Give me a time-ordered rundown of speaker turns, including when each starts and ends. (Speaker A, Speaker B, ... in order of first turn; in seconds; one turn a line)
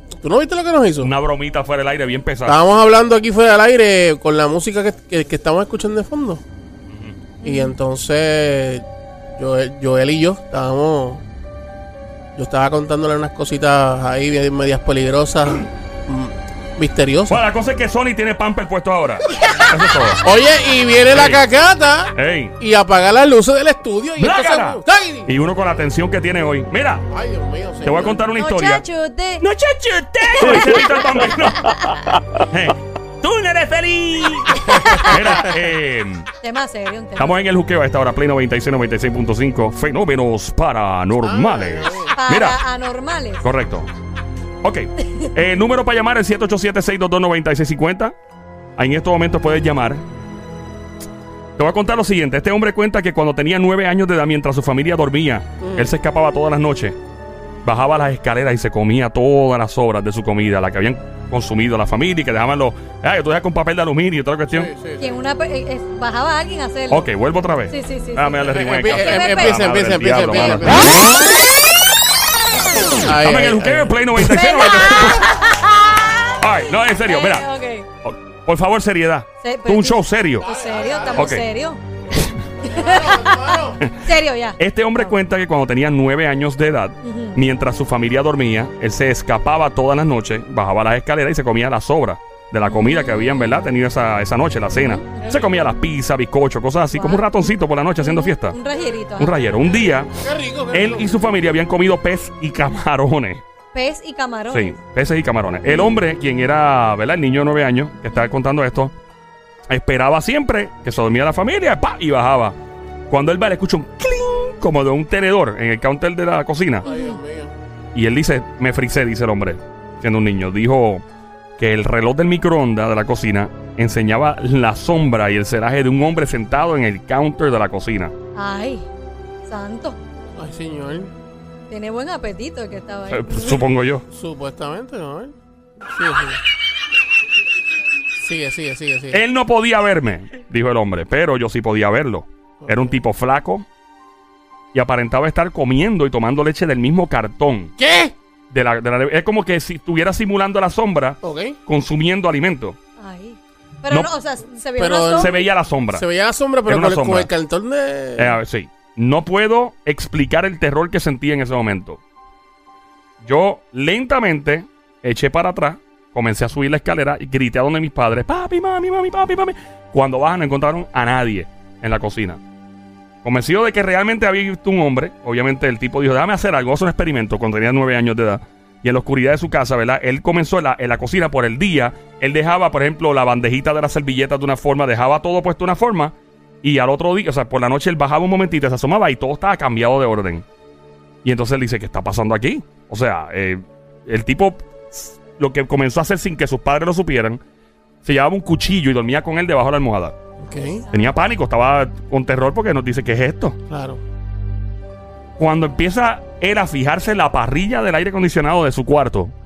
Speaker A: 0.2-1.1
Speaker B: 1.0-2.6
Speaker A: 2.4-6.4
Speaker B: 6.9-7.2
Speaker C: 7.4-7.8
Speaker A: 7.4-11.2
Speaker A: 12.3-17.4
Speaker B: 17.3-20.2
Speaker A: 20.2-25.3
Speaker B: 21.1-21.4
Speaker B: 22.1-22.5
Speaker B: 24.2-27.0
Speaker A: 27.1-28.2
Speaker B: 27.8-28.8
Speaker C: 28.3-29.4
Speaker B: 29.4-31.8
Speaker C: 30.5-32.2
Speaker B: 32.4-36.3
Speaker C: 34.7-35.2
Speaker C: 36.4-37.4
Speaker B: 37.2-42.6
Speaker A: 41.2-42.2
Speaker C: 42.1-43.4
Speaker B: 43.4-43.9
Speaker B: 44.6-48.1
Speaker B: 48.8-50.0
Speaker B: 51.6-56.9
Speaker A: 55.6-55.9
Speaker B: 57.6-64.7
Speaker A: 64.5-65.0
Speaker C: 65.0-67.0
Speaker B: 66.9-71.0
Speaker C: 67.7-69.6
Speaker A: 68.5-71.1
Speaker A: 73.0-74.0
Speaker B: 73.2-75.4
Speaker C: 74.2-77.8
Speaker B: 76.4-77.5
Speaker B: 78.0-80.5
Speaker C: 79.4-81.8
Speaker A: 80.4-81.4
Speaker B: 81.1-81.4
Speaker A: 82.6-83.8
Speaker C: 82.6-85.2
Speaker B: 84.6-98.6
Speaker C: 87.0-87.4
Speaker C: 92.7-93.3
Speaker C: 94.8-95.4
Speaker C: 96.9-97.2
Speaker C: 98.0-99.4
Speaker B: 99.2-100.1
Speaker A: 100.2-101.1
Speaker B: 100.7-103.4
Speaker C: 103.7-104.8
Speaker B: 104.5-108.9
Speaker B: 109.7-112.5
Speaker B: 113.1-116.9
Speaker A: 116.8-117.5
Speaker C: 116.8-117.2
Speaker B: 117.9-121.0
Speaker B: 121.6-128.1
Speaker C: 128.3-128.9
Speaker C: 129.4-130.0
Speaker A: 130.3-131.1
Speaker C: 131.7-133.6
Speaker B: 133.1-134.0
Speaker A: 134.1-135.3
Speaker A: 135.9-136.4
Speaker A: 138.2-139.2
Speaker B: 139.1-143.6
Speaker A: 142.6-143.0
Speaker B: 144.7-147.7
Speaker A: 147.8-148.1
Speaker B: 148.5-152.8
Speaker A: 151.2-151.6
Speaker C: 153.0-155.4
Speaker A: 154.8-158.4
Speaker B: 155.1-156.0
Speaker B: 156.7-157.3
Speaker B: 158.2-162.0
Speaker B: 163.2-172.4
Speaker B: 173.2-190.4
Speaker B: 191.2-197.4
Speaker B: 198.0-200.2
Speaker A: 200.4-200.8
Speaker C: 200.5-201.2
Speaker B: 200.9-203.6
Speaker A: 203.7-204.0
Speaker B: 205.4-209.3